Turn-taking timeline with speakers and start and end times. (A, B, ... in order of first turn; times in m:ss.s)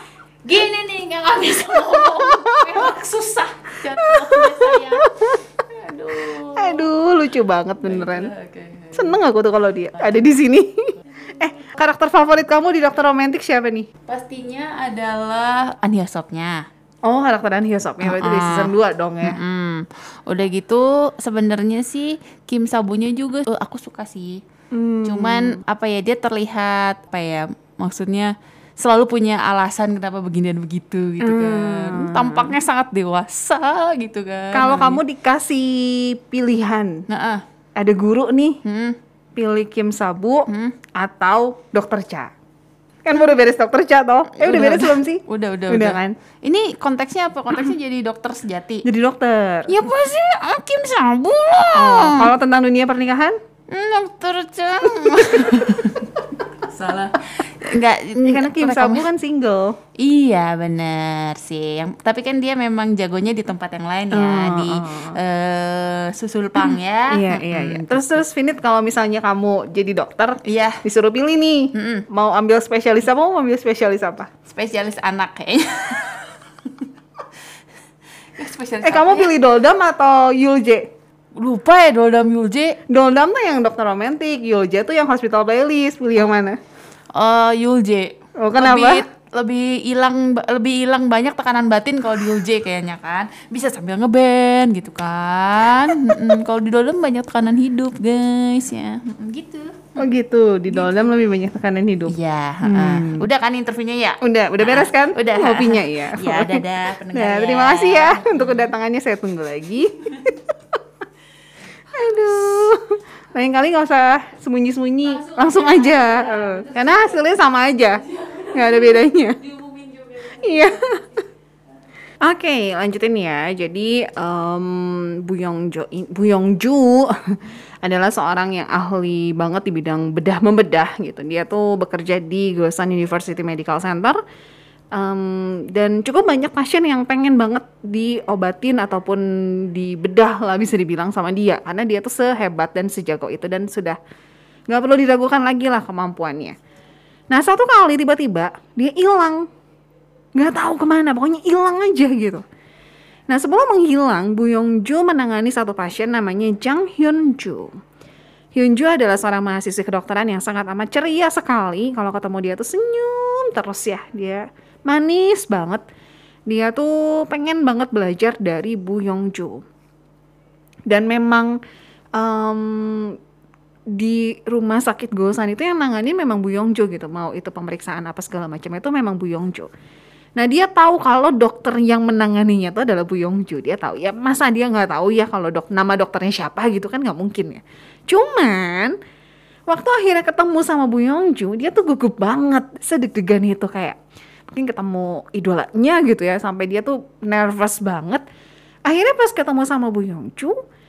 0:00.4-0:06.9 A
0:02.2-0:02.8 B
0:04.0-0:05.4 B
0:06.5-0:08.3 B
0:07.8-0:09.2 A
0:08.9-0:13.9 B
0:10.0-0:10.3 A
0:14.1-0:16.7 A
0:17.0-0:19.4 B
0:18.0-0:24.4 A
0:24.7-0:25.6 B
0:25.0-0:35.0 A
0:31.2-0:32.6 B
0:34.5-0:37.1 B
0:37.1-0:37.4 A
0:37.8-0:38.6 B
0:38.6-0:39.0 A
0:39.4-0:42.3 B
0:40.5-0:40.8 A
0:43.0-0:46.2 B
0:44.4-0:48.9 A
0:48.8-0:49.8 B
0:49.7-0:52.3 A
0:51.7-0:53.4 B
0:53.7-0:56.1 A
0:55.0-0:55.9 B
0:56.6-0:59.1 A
0:58.2-0:59.8 B
1:00.0-1:08.2 A
1:04.1-1:05.2 B
1:06.6-1:14.3 B
1:10.4-1:10.8 A
1:11.7-1:12.1 A
1:14.5-1:16.9 A
1:18.4-1:19.3 A
1:18.8-1:20.9 B
1:21.4-1:22.8 A
1:22.9-1:26.6 B
1:27.1-1:40.0 A
1:28.4-1:29.0 B
1:40.0-1:43.3 B
1:40.7-1:41.1 A
1:42.1-1:48.7 A
1:44.2-1:50.5 B
1:51.9-1:59.4 B
1:55.2-1:57.4 A
1:58.1-2:00.9 A
2:00.2-2:01.1 B
2:02.2-2:14.2 B
2:14.9-2:24.0 B
2:24.7-2:26.6 B
2:27.3-2:29.5 B
2:30.4-2:32.4 B
2:33.3-2:37.8 B
2:38.6-2:45.8 B
2:46.5-2:49.6 B
2:50.9-2:51.6 B
2:52.2-2:53.2 B
2:53.9-2:59.7 B
3:00.4-3:09.0 B
3:09.7-3:14.0 B
3:14.5-3:18.2 B
3:18.9-3:20.6 B